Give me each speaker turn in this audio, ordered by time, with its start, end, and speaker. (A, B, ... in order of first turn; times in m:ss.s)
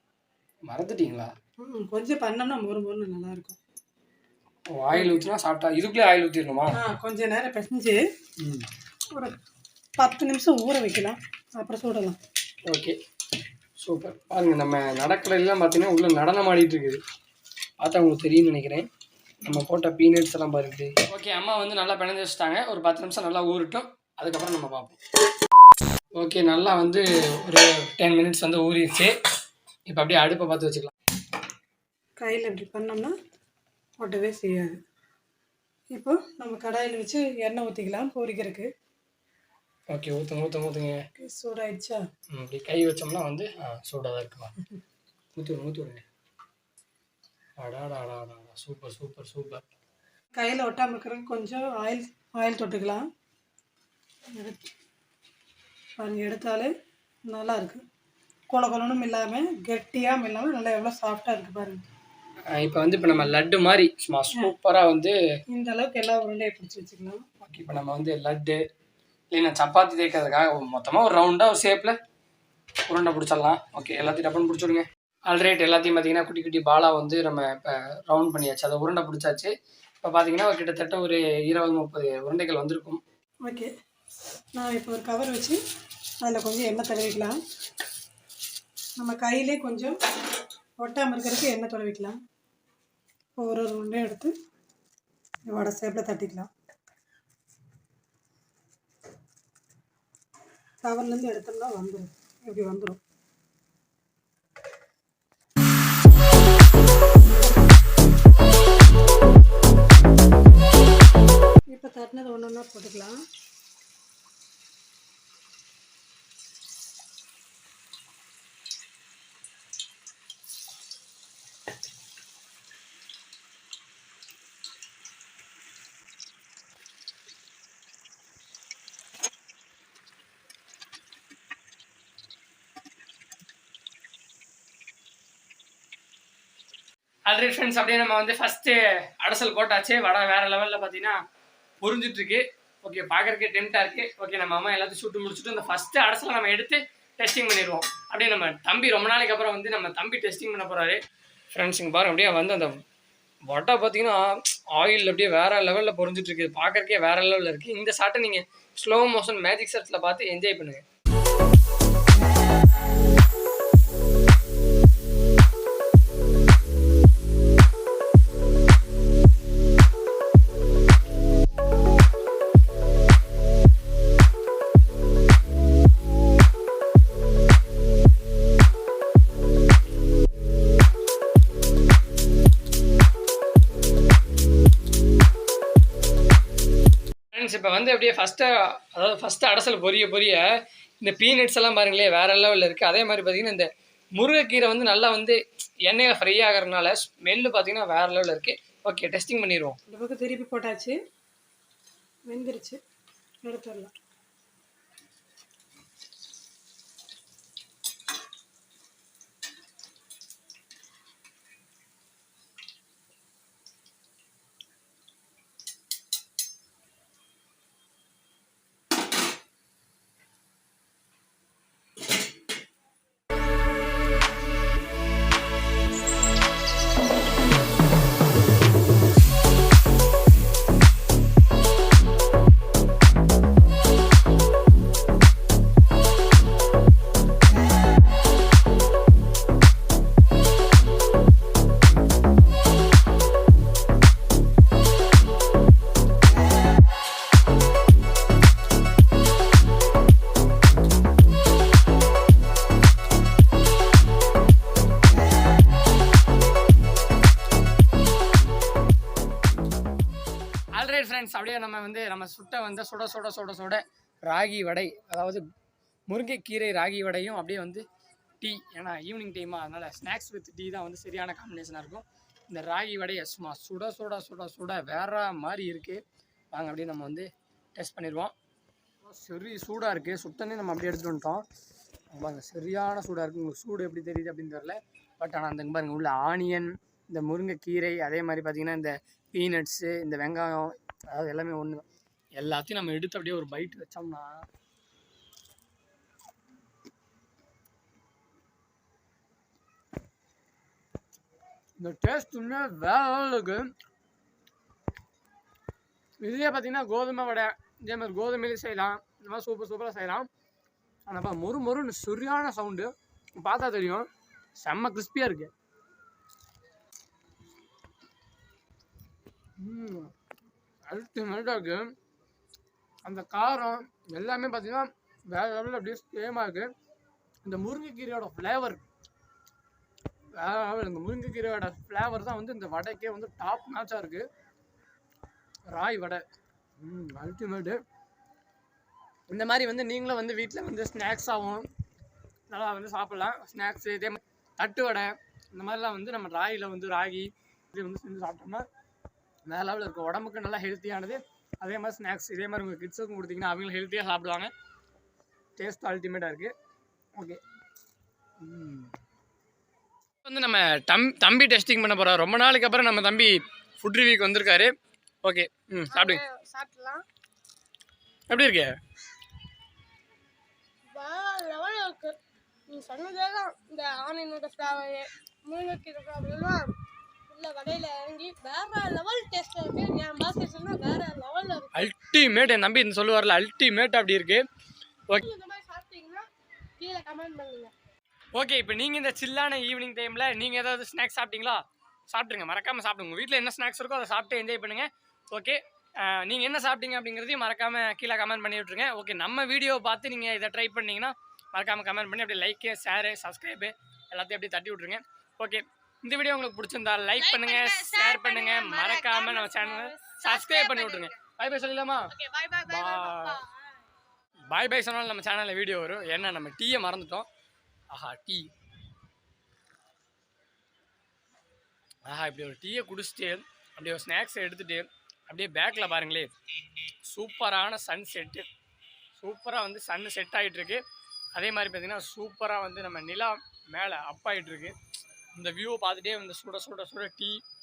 0:00.6-0:01.3 A
0:01.6-0:03.6 B
0:04.7-0:06.8 A
0:04.9-0:05.2 B
0:06.7-0:08.0 B
0:08.4-0:08.6 A
0:10.0-0:12.2 B
0:12.7-0:13.0 A
0:13.8-0:17.0 A
0:17.8-0:18.9 A
0:19.4-0:25.0 A
0:26.2-0:29.1 A
0:29.9-0:30.9 A
0:32.2-0:33.1 B
0:34.0-0:34.8 B
0:35.9-0:38.7 B
0:39.9-0:41.0 A
0:41.2-0:42.0 B
0:42.3-0:44.5 A
0:45.4-0:46.0 A
0:47.6-0:49.6 A
0:50.4-0:53.0 B
0:54.3-0:54.7 B
0:56.0-0:56.7 B
0:57.3-0:57.8 B
0:58.5-1:01.8 B
1:02.5-1:05.1 A
1:05.5-1:07.2 B
1:07.4-1:08.6 A
1:09.3-1:12.0 A
1:12.9-1:23.0 A
1:24.6-1:25.6 B
1:26.2-1:27.4 B
1:29.0-1:29.9 B
1:30.8-1:32.2 B
1:33.4-1:34.3 B
1:35.5-1:36.5 B
1:40.8-1:43.0 B
1:51.7-1:53.1 B
2:17.3-2:21.2 A
2:21.8-2:31.0 A
2:31.5-2:32.8 A
2:33.5-2:40.8 A
3:07.3-3:10.4 A
3:11.0-3:19.8 A
3:19.9-3:21.0 B
3:22.3-3:22.8 B
3:23.4-3:23.9 B
4:20.7-4:25.4 A
4:26.1-4:27.8 A
4:28.4-4:36.0 A
4:36.5-4:38.3 A
4:39.0-4:41.4 A
4:42.1-4:51.8 A
4:52.4-4:54.4 A
5:01.8-5:03.7 A
5:06.2-5:10.3 A
5:11.1-5:14.0 A
5:14.6-5:15.5 A
5:19.6-5:20.1 A
5:20.8-5:21.9 A
5:23.0-5:26.7 A
5:27.4-5:28.8 A
5:30.4-5:34.3 A
5:35.7-5:36.2 A
5:36.8-5:37.8 A
5:39.3-5:41.7 A
5:42.5-5:48.6 A
5:49.5-5:54.5 A
5:55.6-5:56.5 A
5:58.4-5:58.9 A
6:00.2-6:04.7 A
6:05.2-6:06.2 A
6:05.9-6:07.0 C
6:08.3-6:08.8 A
6:10.9-6:12.2 C
6:12.7-6:16.7 C
6:17.3-6:21.7 C
6:21.7-6:24.4 A
6:25.2-6:26.3 C
6:26.8-6:27.7 C
6:28.3-6:52.1 A
6:47.2-6:51.1 C
6:52.1-6:53.6 C
6:52.6-6:53.4 A
6:54.5-6:57.3 A
6:57.9-6:58.5 A
7:02.0-7:06.3 A
7:07.0-7:08.4 A
7:09.2-7:10.8 A
7:11.3-7:14.8 A
7:15.3-7:17.4 A